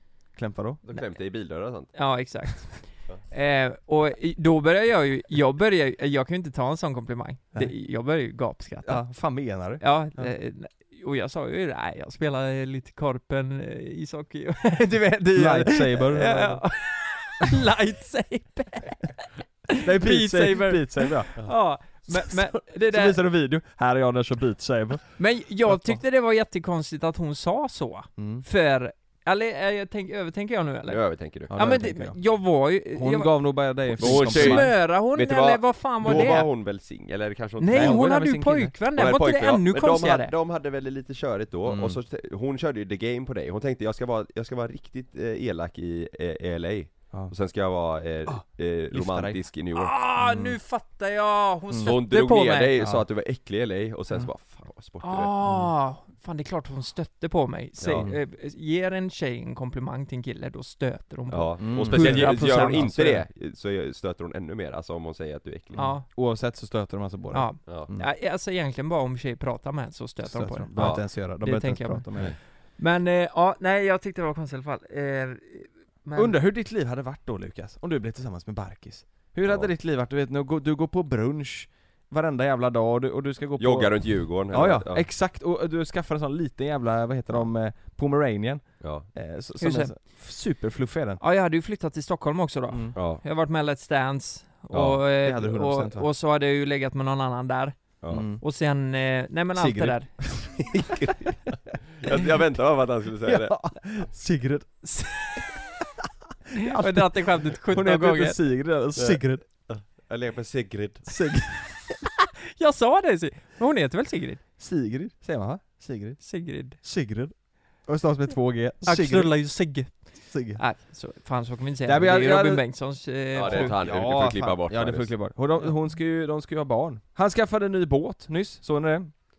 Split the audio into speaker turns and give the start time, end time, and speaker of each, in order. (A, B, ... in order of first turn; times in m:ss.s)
0:00.4-0:00.8 A
0:00.8-0:01.9 B
0:01.9-0:09.0 C
0:08.8-0:10.3 A
0:09.8-0:23.2 C
0:15.3-0:16.6 A
0:19.7-0:21.4 A
0:22.1-0:26.0 A
0:25.2-0:31.0 C
0:28.2-0:28.4 A
0:30.9-0:31.5 B
0:31.5-0:32.2 A
0:31.5-0:36.5 C
0:32.9-0:34.7 A
0:34.0-0:38.0 B
0:37.6-0:40.3 C
0:37.7-0:38.7 A
0:38.9-0:50.0 B
0:41.7-0:42.0 A
0:48.2-0:49.4 A
0:49.8-0:52.8 C
0:50.2-0:50.6 A
0:51.7-0:52.0 A
0:51.8-0:55.3 B
0:52.8-0:53.0 A
0:55.0-1:02.8 C
0:55.4-0:55.7 A
0:57.8-0:58.1 B
0:57.9-0:58.2 A
1:01.3-1:05.9 B
1:01.6-1:03.2 A
1:05.7-1:06.0 C
1:05.7-1:08.1 A
1:07.3-1:16.4 C
1:10.2-1:12.4 A
1:10.8-1:11.0 B
1:16.1-1:31.2 A
1:23.6-1:25.0 B
1:28.8-1:29.1 B
1:29.6-1:29.9 C
1:31.2-1:40.1 C
1:32.7-1:33.0 A
1:33.0-1:33.2 B
1:34.7-1:35.0 B
1:34.7-1:36.1 A
1:38.0-1:38.4 A
1:39.5-1:41.4 A
1:40.9-1:41.1 B
1:42.0-1:43.5 B
1:43.2-1:44.9 A
1:44.8-1:45.5 C
1:46.5-1:48.4 C
1:46.5-1:49.4 A
1:49.0-1:51.2 B
1:51.1-1:52.0 A
1:52.5-1:54.4 C
1:54.6-1:56.2 A
1:56.2-1:56.8 C
1:56.8-1:57.3 A
1:57.8-1:59.5 A
1:58.8-2:03.8 C
2:00.3-2:00.6 A
2:01.8-2:02.6 A
2:03.4-2:05.2 B
2:03.4-2:09.1 A